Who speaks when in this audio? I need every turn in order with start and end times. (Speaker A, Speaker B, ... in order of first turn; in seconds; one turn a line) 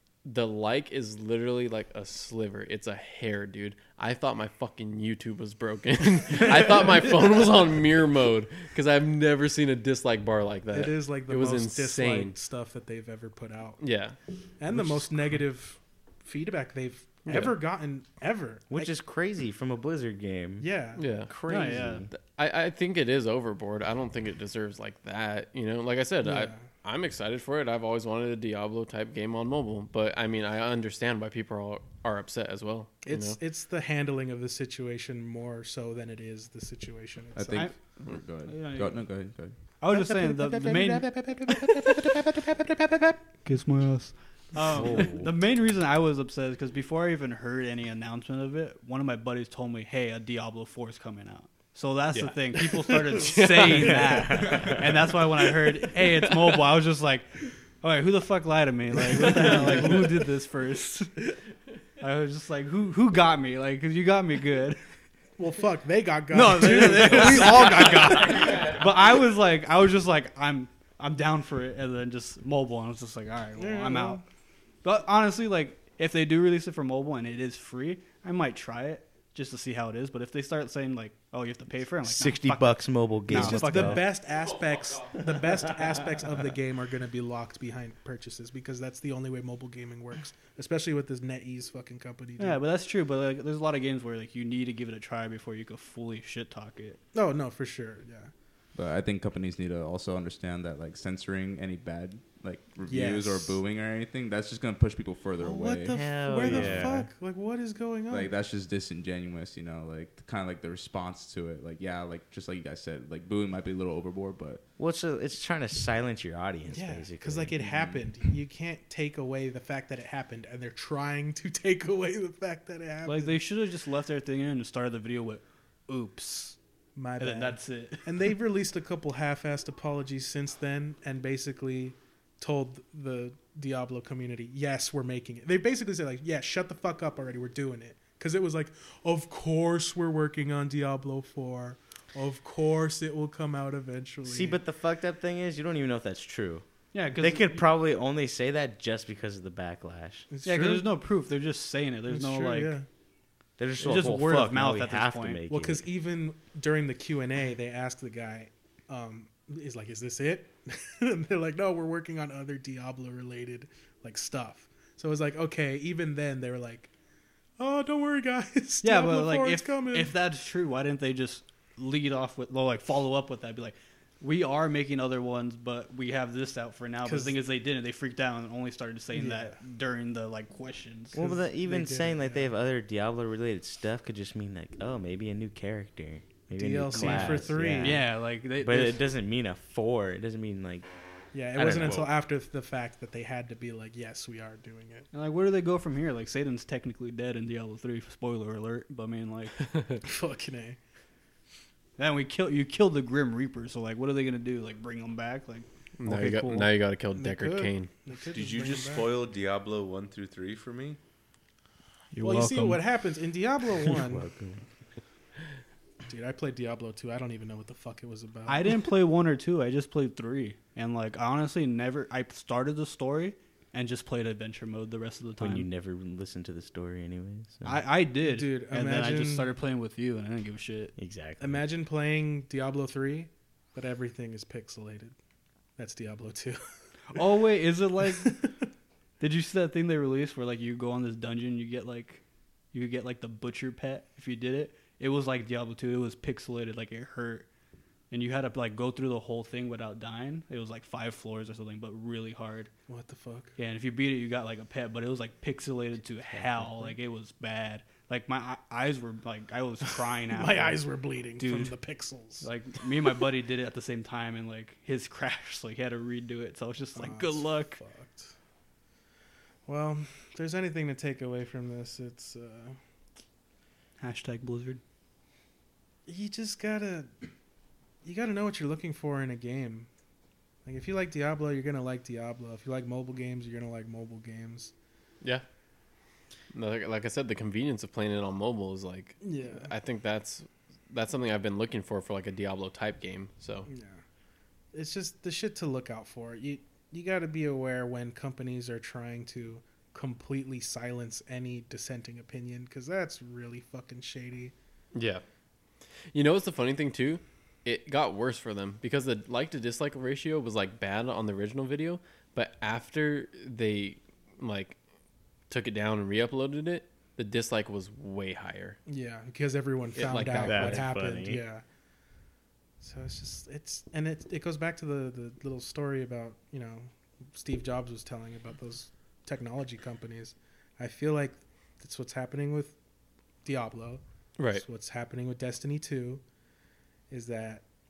Speaker A: 0.2-12.3
Speaker B: 10.7-13.8
Speaker A: 13.8-14.2
Speaker B: 14.6-18.9
Speaker A: 17.2-17.5
Speaker C: 18.7-20.6
Speaker B: 20.6-21.2
Speaker A: 21.0-21.3
Speaker C: 21.3-22.1
Speaker D: 21.5-22.0
Speaker A: 22.1-33.4
Speaker B: 26.2-26.6
Speaker B: 33.0-37.7
Speaker E: 37.3-39.5
Speaker D: 38.4-39.1
Speaker D: 39.8-42.0
Speaker B: 39.9-43.2
Speaker D: 43.4-61.4
Speaker C: 44.7-45.4
Speaker A: 53.0-54.0
Speaker C: 53.8-55.0
Speaker D: 62.0-64.8
Speaker B: 65.4-68.6
Speaker D: 66.3-74.2
Speaker A: 67.2-67.4
Speaker B: 73.6-74.2
Speaker D: 74.8-84.1
Speaker C: 82.0-84.1
Speaker B: 83.3-92.6
Speaker D: 92.4-97.0
Speaker B: 97.1-98.3
Speaker E: 98.7-106.9
Speaker B: 102.9-103.6
Speaker B: 105.4-108.3
Speaker C: 105.9-107.1
Speaker E: 108.1-114.6
Speaker C: 114.8-118.0
Speaker B: 116.7-123.4
Speaker D: 123.0-126.6
Speaker B: 126.9-144.6
Speaker D: 127.2-128.3
Speaker C: 144.2-150.3
Speaker D: 146.9-147.6
Speaker B: 150.3-150.9
Speaker D: 150.4-152.8
Speaker B: 152.1-152.8
Speaker C: 153.6-155.8
Speaker D: 153.8-155.4
Speaker B: 155.5-166.9
Speaker B: 167.6-170.1
Speaker D: 168.8-181.2
Speaker B: 177.0-177.4
Speaker B: 179.1-179.6
Speaker C: 181.1-190.9
Speaker B: 181.2-182.5
Speaker B: 186.5-188.0
Speaker D: 186.9-189.1
Speaker B: 191.3-195.1
Speaker C: 191.5-192.1
Speaker D: 195.1-199.7
Speaker A: 199.7-200.0
Speaker B: 200.0-200.8
Speaker D: 202.0-206.7
Speaker A: 206.0-207.9
Speaker B: 207.1-209.2
Speaker F: 208.1-211.0
Speaker D: 212.1-212.8
Speaker B: 212.2-214.3
Speaker C: 213.9-214.6
Speaker B: 216.1-218.7
Speaker D: 218.5-225.7
Speaker C: 225.4-227.8
Speaker D: 227.6-230.9
Speaker B: 228.2-229.6
Speaker C: 230.9-231.6
Speaker B: 231.4-235.1
Speaker B: 235.8-236.6
Speaker D: 237.1-238.4
Speaker B: 238.2-238.5
Speaker D: 239.2-247.5
Speaker D: 248.1-252.7
Speaker B: 252.9-253.6
Speaker D: 253.6-260.8
Speaker C: 256.2-256.9
Speaker B: 260.3-262.5
Speaker D: 261.4-261.7
Speaker D: 262.4-267.8
Speaker B: 266.9-268.3
Speaker B: 269.6-272.8
Speaker D: 274.0-274.8
Speaker B: 276.1-277.1
Speaker B: 278.0-279.9
Speaker B: 280.6-284.7
Speaker A: 286.5-293.7
Speaker B: 289.2-289.7
Speaker B: 293.7-294.0
Speaker B: 294.7-304.5
Speaker A: 304.9-305.2
Speaker A: 306.1-314.8
Speaker A: 315.5-318.8
Speaker B: 318.9-321.6
Speaker A: 319.9-320.9
Speaker C: 320.4-321.4
Speaker B: 322.8-332.8
Speaker B: 333.4-336.2
Speaker A: 334.4-334.6
Speaker B: 337.1-337.6